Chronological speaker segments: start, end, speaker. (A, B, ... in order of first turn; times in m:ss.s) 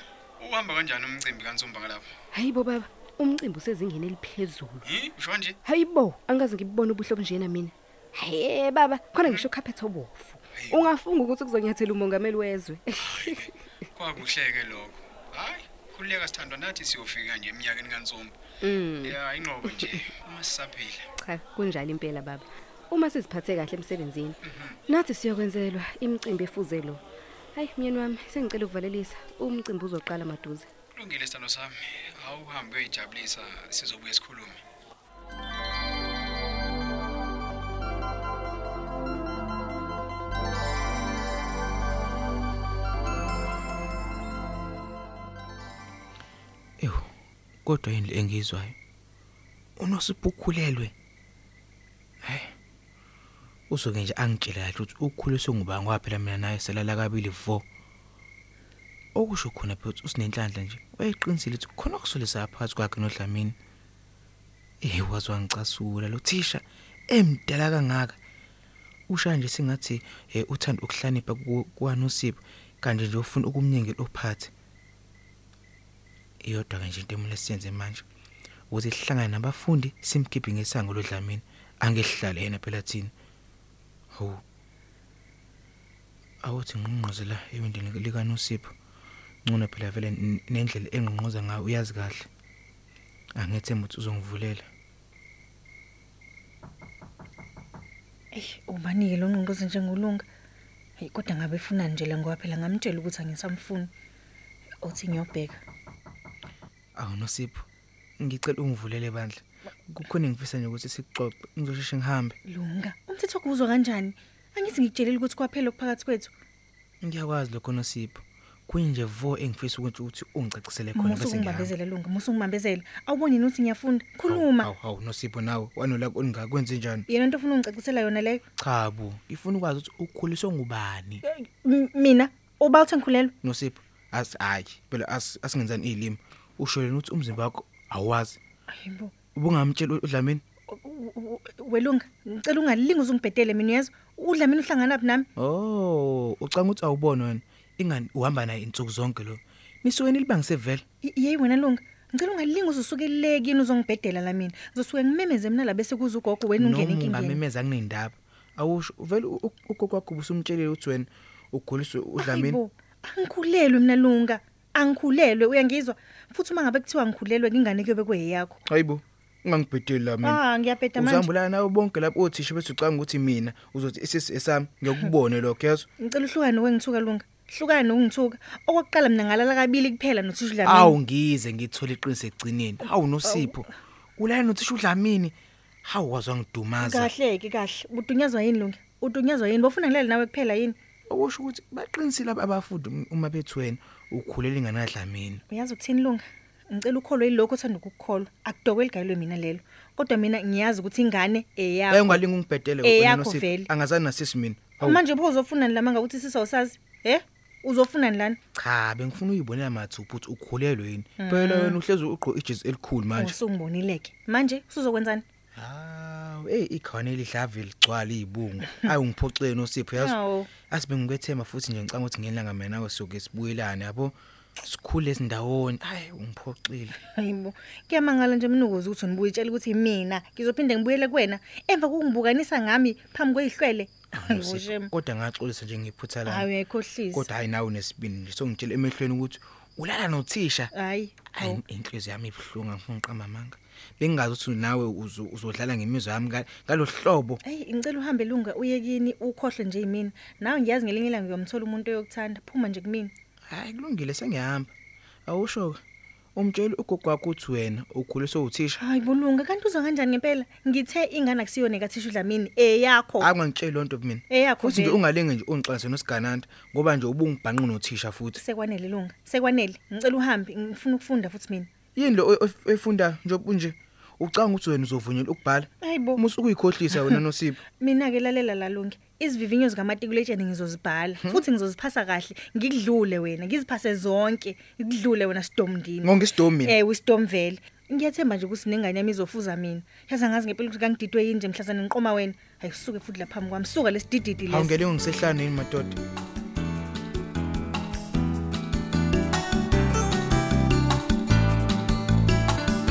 0:00.4-0:02.1 A
0:02.3-0:04.9 B
0:04.8-0:05.6 A
0:05.6-0:13.5 B
0:10.5-0:10.9 A
0:13.0-0:18.4 A
0:18.6-0:20.0 B
0:19.0-0:21.1 A
0:21.2-0:27.0 B
0:27.6-0:30.7 B
0:30.9-0:34.6 A
0:46.8-0:47.1 C
0:47.6-0:48.8 C
0:49.8-0:50.9 C
0:52.2-0:52.5 C
0:53.7-0:57.6 C
0:59.2-1:03.6 C
1:04.8-1:08.2 C
1:09.1-1:14.5 C
1:16.4-1:18.0 C
1:18.7-1:23.1 C
1:24.1-1:24.4 C
1:26.4-1:28.7 C
1:29.4-1:32.3 C
1:33.4-1:34.7 C
1:38.3-1:40.2 D
1:41.0-1:43.9 D
1:44.8-1:45.6 D
1:47.0-1:47.6 C
1:48.2-1:52.4 C
1:52.5-1:56.3 D
1:57.0-2:01.7 C
2:01.0-2:04.7 D
2:04.3-2:07.1 C
2:07.1-2:08.4 D
2:08.6-2:11.2 C
2:11.2-2:13.3 D
2:13.4-2:18.4 C
2:18.7-2:19.1 D
2:19.4-2:20.4 C
2:20.7-2:25.3 D
2:25.4-2:30.8 C
2:31.0-2:37.4 D
2:36.6-2:42.6 C
2:42.2-2:48.6 D
2:48.6-2:50.4 C
2:50.2-2:51.3 D
2:51.0-2:55.9 C
2:56.0-3:01.0 D
3:00.6-3:07.1 C
3:03.2-3:03.6 D
3:06.8-3:10.8 D
3:11.1-3:15.4 C
3:15.5-3:22.2 D
3:21.9-3:25.0 C
3:22.8-3:23.7 D
3:24.8-3:28.4 D
3:28.5-3:33.4 C
3:31.2-3:31.8 D
3:33.1-3:35.2 D
3:35.6-3:47.0 C
3:40.0-3:40.5 D
3:47.0-3:54.9 D
3:54.2-3:56.5 C
3:56.2-3:57.2 D
3:57.1-4:00.7 C
4:00.7-4:01.6 D
4:01.3-4:07.4 C
4:07.4-4:13.1 D
4:13.5-4:14.7 C
4:15.2-4:15.8 C
4:16.4-4:18.8 C
4:18.8-4:23.3 D
4:23.2-4:28.4 C
4:24.3-4:25.0 D
4:28.4-4:31.7 D
4:32.0-4:37.6 C
4:35.8-4:36.2 D
4:37.8-4:54.8 D
4:46.0-4:46.8 C
4:54.5-4:56.0 C